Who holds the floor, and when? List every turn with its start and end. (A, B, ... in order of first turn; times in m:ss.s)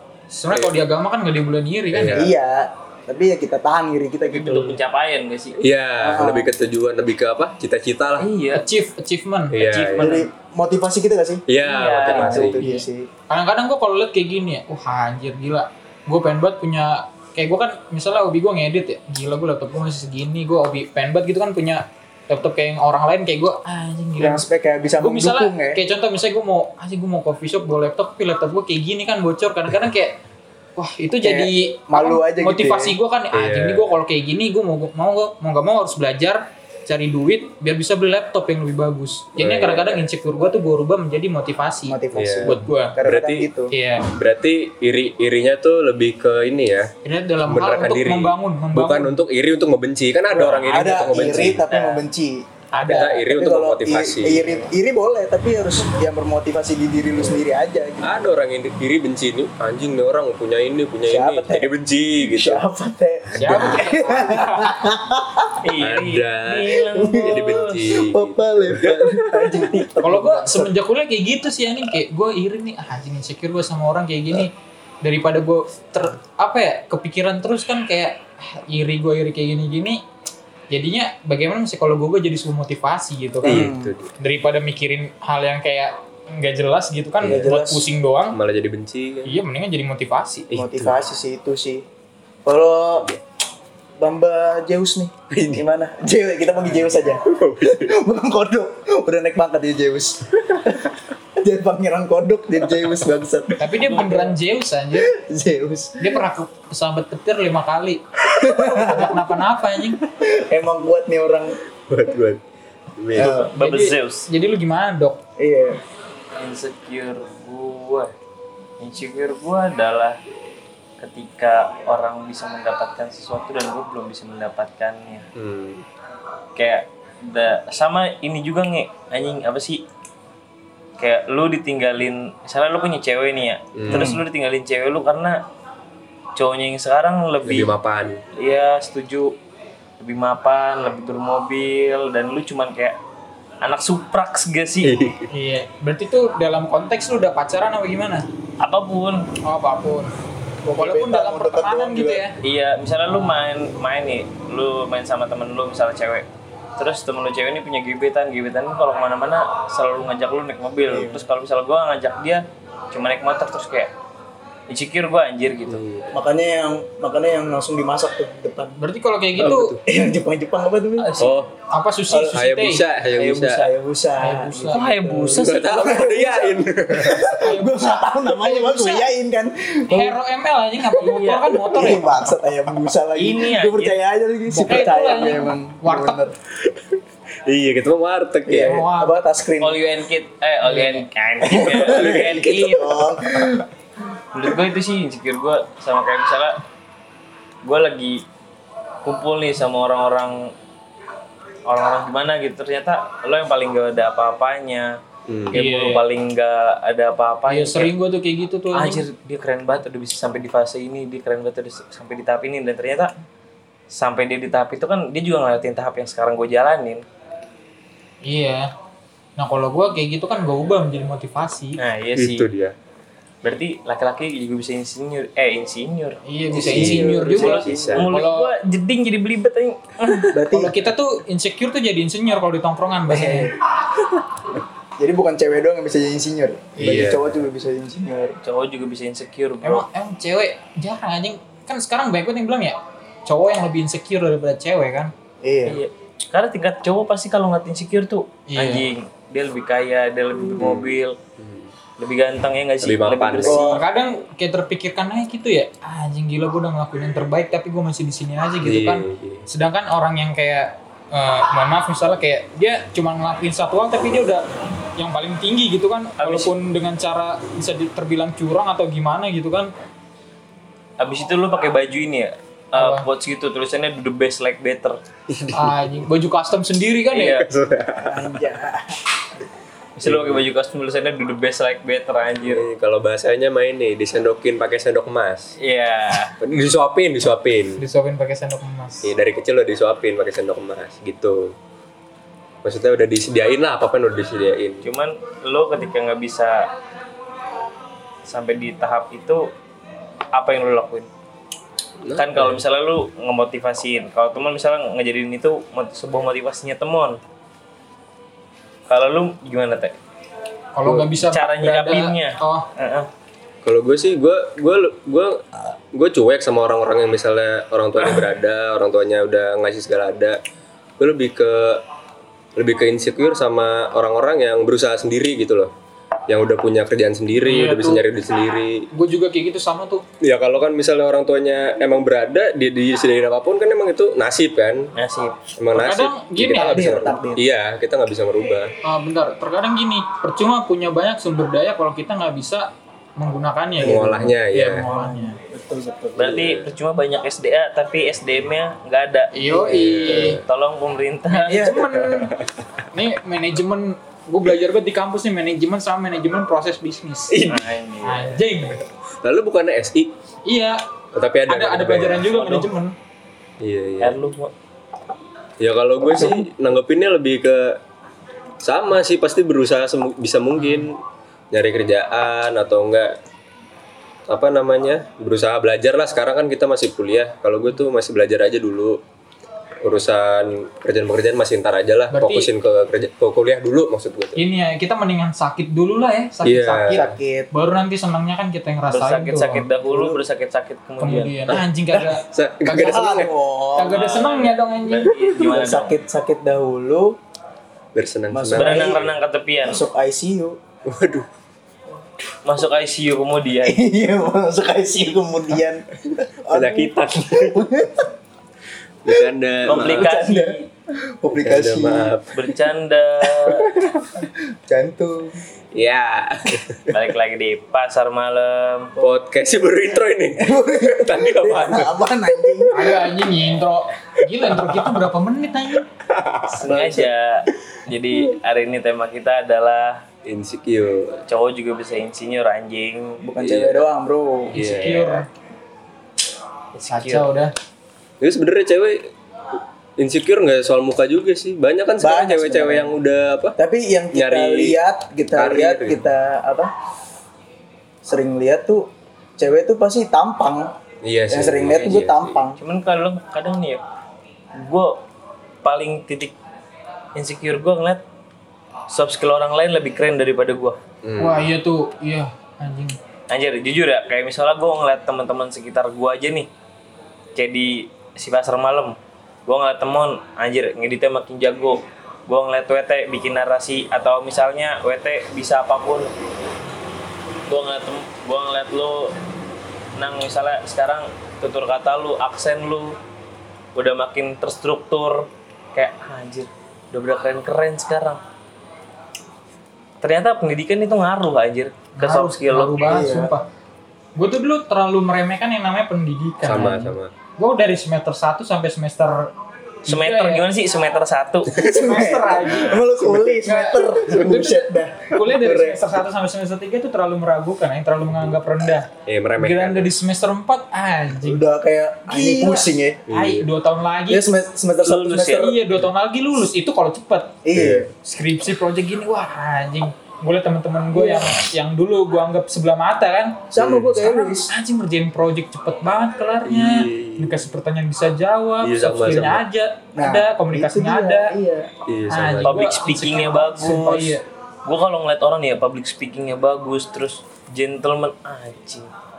0:00.3-0:02.3 A
0:00.5-0:00.8 B
0:01.9-0:02.3 B
0:02.1-0:04.8 C
0:04.3-0:05.6 D
0:05.6-0:08.3 B
0:06.0-0:06.5 C
0:08.2-0:08.6 D
0:08.5-0:10.1 A
0:09.5-0:10.2 B
0:10.0-0:11.4 C
0:11.5-0:12.6 B
0:11.6-0:12.6 D
0:12.1-0:13.1 C
0:12.6-0:24.4 A
0:24.2-0:25.8 C
0:25.0-0:30.2 A
0:30.8-0:43.0 A
0:31.2-0:33.0 C
0:33.3-0:33.9 B
0:39.4-0:40.1 B
0:41.8-0:43.7 C
0:42.1-0:43.5 B
0:43.7-0:44.1 A
0:44.1-0:46.9 B
0:47.0-0:49.2 A
0:47.4-0:51.6 B
0:50.3-0:51.2 A
0:50.4-0:58.2 C
0:51.7-0:52.0 D
0:52.7-0:53.2 A
0:52.8-0:54.6 B
0:58.0-1:02.6 B
1:01.0-1:05.6 C
1:03.4-1:04.8 A
1:05.6-1:07.9 D
1:05.8-1:09.9 B
1:06.9-1:10.8 C
1:10.0-1:20.0 A
1:20.7-1:28.4 A
1:23.4-1:23.9 C
1:23.4-1:24.1 B
1:27.2-1:27.4 B
1:27.2-1:27.8 C
1:28.3-1:29.3 B
1:29.2-1:30.4 A
1:30.5-1:31.0 B
1:30.5-1:31.8 C
1:32.4-1:33.1 C
1:34.0-1:44.3 C
1:35.3-1:35.6 B
1:36.8-1:38.0 B
1:43.6-1:45.1 A
1:45.0-1:46.2 C
1:46.0-1:48.0 A
1:48.2-1:49.3 C
1:48.5-1:50.0 A
1:50.0-1:51.6 C
1:51.9-1:52.4 B
1:53.0-1:53.3 B
1:53.2-1:53.5 C
1:53.2-1:54.3 D
1:53.2-1:55.2 A
1:55.4-1:55.8 C
1:56.3-1:58.1 D
1:58.8-2:00.2 D
2:01.0-2:05.3 D
2:05.3-2:05.8 B
2:06.6-2:09.8 D
2:11.0-2:15.4 D
2:13.7-2:14.2 B
2:13.9-2:14.2 C
2:16.4-2:17.7 D
2:17.4-2:18.2 B
2:18.4-2:19.3 D
2:20.0-2:23.0 D
2:23.6-2:25.0 D
2:24.8-2:25.3 B
2:25.3-2:28.2 A
2:28.6-2:29.3 D
2:29.4-2:30.1 A
2:30.6-2:32.2 C
2:30.8-2:32.4 A
2:32.4-2:36.2 D
2:36.8-2:43.9 D
2:40.9-2:41.3 C
2:44.7-2:45.8 D
2:45.7-2:46.1 B
2:46.1-2:48.8 C
2:48.8-2:49.7 A
2:49.4-2:49.8 B
2:49.8-2:51.2 C
2:51.0-2:51.4 D
2:51.2-2:51.5 B
2:51.7-2:52.8 A
2:52.1-2:52.3 C
2:52.2-2:53.7 B
2:53.1-3:00.2 C
2:54.2-2:54.8 A
2:54.7-2:56.1 D
2:55.3-2:57.4 B
2:57.4-2:59.0 A
2:59.9-3:02.0 A
3:01.0-3:01.6 D
3:01.6-3:06.3 C
3:03.1-3:04.0 D
3:04.5-3:06.2 A
3:06.6-3:08.8 B
3:08.4-3:09.8 C
3:08.6-3:09.2 A
3:09.6-3:13.0 D
3:10.6-3:11.1 A
3:11.4-3:13.7 C
3:11.8-3:13.6 B
3:14.3-3:16.6 D
3:17.6-3:18.2 D
3:19.0-3:20.5 D
3:21.6-3:25.0 D
3:25.3-3:25.6 B
3:25.5-3:27.9 D
3:25.5-3:26.0 A
3:27.5-3:29.0 A
3:28.7-3:33.1 D
3:33.9-3:37.0 D
3:38.2-3:38.7 A
3:39.4-3:41.8 A
3:41.8-3:42.5 D
3:42.2-3:42.7 B
3:43.4-3:46.2 D
3:46.2-3:48.5 A
3:46.5-3:48.1 C
3:46.6-3:48.1 B
3:47.3-3:50.4 D
3:50.3-3:50.8 C
3:50.5-3:53.5 A
3:53.1-3:53.6 C
3:55.0-3:58.4 C
3:56.8-3:57.4 B
3:58.4-3:59.8 D
3:59.6-4:05.1 A
4:05.4-4:05.8 C
4:05.6-4:11.2 D
4:08.5-4:08.9 A
4:10.6-4:11.7 B
4:12.0-4:13.8 D
4:12.8-4:13.6 B
4:13.4-4:13.8 C
4:13.7-4:24.4 A
4:18.6-4:19.4 B
4:25.0-4:29.7 A
4:26.2-4:26.5 D
4:31.0-4:35.0 D
4:32.7-4:33.0 A
4:35.3-4:35.8 B
4:35.5-4:37.4 A
4:37.1-4:37.4 D
4:37.3-4:38.4 B
4:38.0-4:39.0 C
4:40.0-4:42.6 D
4:40.0-4:40.4 B
4:42.4-4:45.5 B
4:45.6-4:46.4 D
4:46.4-4:47.8 B
4:47.8-4:49.1 A
4:49.0-4:51.5 B
4:52.6-4:54.8 B
4:54.8-4:56.7 D
4:58.2-4:59.5 D
5:00.3-5:01.1 D
5:02.0-5:02.6 B
5:02.2-5:07.2 D
5:08.9-5:10.0 D
5:10.7-5:12.7 A
5:11.2-5:13.1 D
5:13.6-5:20.4 B
5:21.0-5:21.8 B
5:22.6-5:25.7 B
5:26.3-5:28.9 B
5:27.4-5:28.0 A
5:28.9-5:30.0 A
5:30.2-5:34.9 B
5:35.0-5:35.4 D
5:35.6-5:38.7 B
5:35.7-5:37.0 A
5:36.6-5:37.4 C
5:38.8-5:45.4 A
5:43.8-5:46.5 C
5:43.8-5:44.9 B
5:46.2-5:49.3 D
5:46.3-5:46.6 B
5:49.3-5:50.4 A
5:49.5-5:50.0 C
5:49.7-5:50.4 B
5:50.0-5:51.7 D
5:51.3-5:52.3 A
5:51.5-5:52.0 C
5:52.0-5:52.4 B
5:52.9-5:57.4 A
5:57.3-5:57.6 B
5:57.4-5:58.4 D
5:58.0-5:58.8 A
5:59.2-6:00.1 B
6:00.4-6:00.8 A
6:01.1-6:02.3 B
6:01.5-6:02.9 A
6:02.2-6:02.7 D
6:03.6-6:04.2 B
6:04.0-6:04.5 D
6:05.6-6:07.8 B
6:06.1-6:06.4 C
6:08.6-6:11.0 B
6:10.6-6:10.9 A
6:11.5-6:13.2 B
6:14.3-6:19.0 B
6:19.8-6:24.4 B
6:22.1-6:22.5 A
6:24.4-6:29.7 A
6:26.4-6:27.1 B
6:26.9-6:27.5 C
6:28.9-6:31.4 D
6:29.8-6:30.2 C
6:31.0-6:32.2 A
6:31.9-6:34.0 C
6:32.2-6:33.3 B
6:33.7-6:35.2 A
6:33.8-6:36.0 D
6:35.4-6:37.2 C
6:37.9-6:39.1 B
6:38.3-6:39.1 C
6:38.5-6:39.8 D
6:39.6-6:40.6 C
6:40.8-6:41.3 B
6:42.4-6:43.8 D
6:43.6-6:48.1 C
6:46.5-6:47.7 B
6:49.0-6:50.1 B
6:49.1-6:52.1 C
6:49.6-6:50.6 D
6:51.4-6:52.3 B
6:52.3-6:53.7 D
6:53.4-6:55.4 C
6:55.7-6:56.9 B
6:56.9-6:58.9 D
6:59.0-7:02.0 B
7:00.4-7:03.0 C
7:02.7-7:05.9 A
7:04.4-7:04.9 B
7:06.1-7:06.6 B
7:06.5-7:10.0 D
7:06.7-7:07.1 C
7:10.2-7:11.2 B
7:11.3-7:13.6 D
7:13.2-7:14.6 C
7:13.4-7:13.8 B
7:14.5-7:15.3 A
7:14.5-7:15.2 B
7:16.7-7:17.3 D
7:16.9-7:17.5 A
7:18.2-7:19.1 B
7:20.0-7:23.6 B
7:22.0-7:23.0 C
7:23.6-7:26.7 C
7:24.1-7:24.8 B
7:25.3-7:26.0 B
7:28.0-7:28.9 C
7:29.4-7:30.7 C
7:31.0-7:32.4 B
7:31.3-7:32.6 C
7:32.6-7:33.8 D
7:34.5-7:35.0 D
7:35.6-7:36.4 D
7:37.1-7:38.0 D
7:38.9-7:40.8 D
7:41.0-7:41.4 B
7:41.2-7:43.0 A
7:43.3-7:46.5 D
7:47.3-7:56.1 D
7:57.5-7:59.1 D
8:00.0-8:03.0 D
8:03.7-8:08.2 D
8:10.0-8:13.2 D
8:12.0-8:13.4 A
8:12.8-8:13.3 C
8:14.2-8:19.3 A
8:16.4-8:17.1 B
8:19.8-8:20.4 A
8:19.9-8:21.6 D
8:21.5-8:26.0 C
8:21.5-8:22.8 A
8:22.4-8:22.8 D
8:23.4-8:31.4 A
8:29.0-8:29.9 B
8:31.2-8:33.0 C
8:32.1-8:34.2 A
8:33.1-8:33.5 B
8:34.1-8:35.6 C
8:34.8-8:35.6 D
8:35.2-8:37.4 A
8:37.4-8:37.9 C
8:37.5-8:37.9 B
8:38.0-8:51.3 A
8:40.9-8:41.3 C
8:43.5-8:44.5 C
8:43.6-8:43.9 B
8:46.4-8:47.4 B
8:48.6-8:49.4 B
8:50.0-8:51.7 C
8:51.8-8:52.6 B
8:52.1-8:54.2 A
8:52.4-8:58.9 D